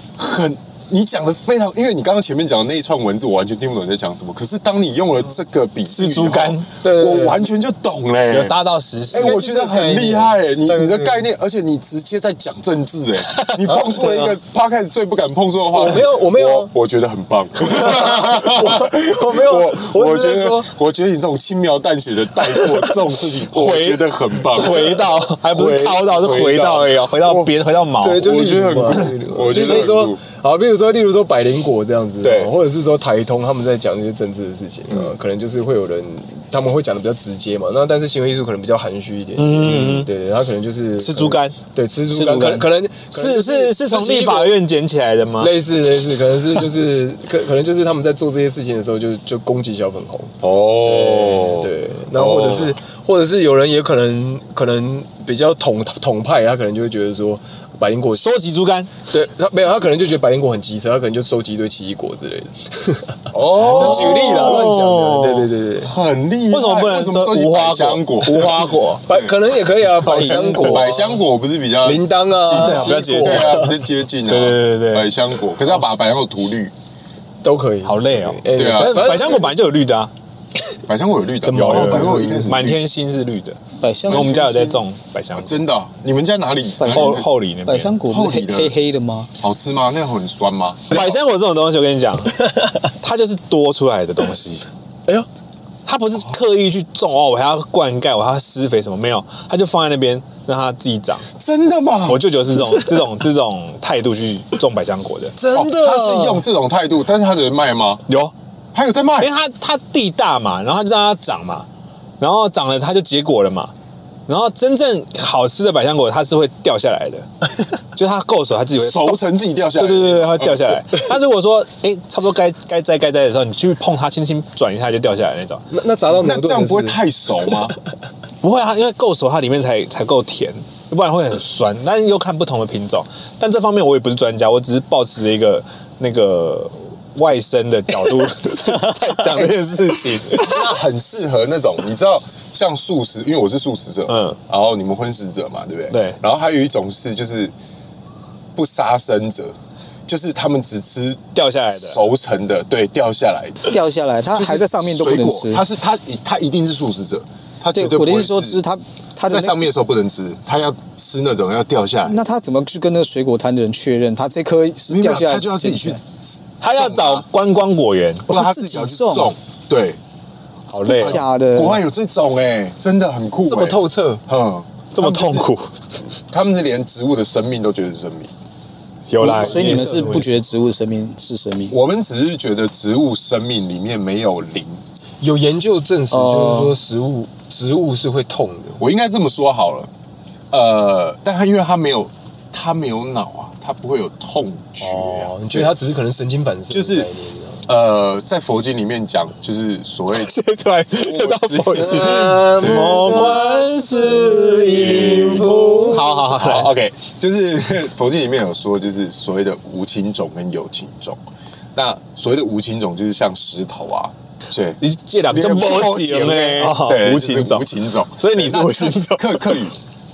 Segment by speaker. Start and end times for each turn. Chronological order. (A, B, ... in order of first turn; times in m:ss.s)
0:00.2-0:08.6 A
0:05.8-0:06.7 B
0:06.8-0:07.5 C
0:08.3-0:09.4 B
0:09.1-0:27.5 A
0:09.1-0:11.3 C
0:13.6-0:14.4 C
0:15.7-0:16.7 C
0:17.6-0:20.7 C
0:22.5-0:22.9 C
0:23.4-0:28.3 B
0:28.0-0:44.6 C
0:28.1-0:30.2 A
0:32.2-0:32.5 A
0:39.4-0:40.1 B
0:41.0-0:41.6 B
0:42.2-0:42.6 B
0:43.1-0:45.5 B
0:45.4-0:58.4 C
0:50.4-0:52.8 A
0:58.1-0:58.9 B
0:59.1-1:05.9 C
1:03.3-1:04.7 A
1:03.6-1:05.5 B
1:05.8-1:09.3 A
1:06.5-1:09.0 B
1:08.4-1:11.2 C
1:10.0-1:11.0 D
1:10.1-1:16.7 A
1:11.8-1:13.8 C
1:12.5-1:15.1 B
1:17.4-1:19.5 C
1:17.8-1:20.1 B
1:18.5-1:19.4 A
1:20.9-1:22.8 A
1:21.4-1:22.5 C
1:21.5-1:25.5 B
1:23.8-1:24.4 D
1:24.1-1:24.8 A
1:25.3-1:27.3 A
1:26.8-1:29.3 D
1:26.8-1:28.0 B
1:28.0-1:28.8 A
1:29.4-1:31.1 A
1:30.9-1:32.4 B
1:32.9-1:34.6 B
1:35.8-1:41.3 B
1:41.4-1:42.2 A
1:42.1-1:45.4 B
1:45.4-1:46.4 C
1:45.5-1:48.0 A
1:48.1-1:48.3 B
1:48.7-1:49.3 A
1:49.2-1:51.7 B
1:52.2-1:53.7 B
1:54.3-1:57.3 B
1:57.9-1:59.2 B
1:58.8-2:01.0 A
1:59.7-2:05.6 B
2:05.7-2:07.7 C
2:06.1-2:07.8 A
2:08.4-2:20.8 B
2:20.3-2:27.5 A
2:24.1-2:24.4 B
2:25.9-2:26.2 B
2:28.5-2:29.6 A
2:30.1-2:33.8 A
2:31.3-2:32.0 B
2:33.6-2:35.6 D
2:34.3-2:38.6 A
2:37.7-2:39.6 D
2:39.2-2:42.2 A
2:42.0-2:46.0 D
2:44.9-2:47.2 A
2:46.6-2:48.3 B
2:48.3-2:50.0 A
2:48.3-2:49.3 D
2:50.7-2:51.2 B
2:50.7-2:51.8 D
2:50.8-2:55.5 A
2:53.4-2:54.2 C
2:54.9-2:55.7 B
2:56.3-2:58.3 A
2:59.1-3:00.4 B
2:59.2-3:01.8 D
2:59.2-3:00.2 C
3:01.7-3:04.8 A
3:05.2-3:08.8 C
3:06.1-3:06.7 D
3:08.8-3:09.9 A
3:10.5-3:15.7 A
3:14.8-3:17.6 C
3:16.7-3:17.1 A
3:17.6-3:20.4 A
3:20.1-3:26.7 B
3:20.9-3:23.6 A
3:21.8-3:26.2 C
3:24.1-3:31.2 A
3:31.7-3:39.8 A
3:34.8-3:39.6 B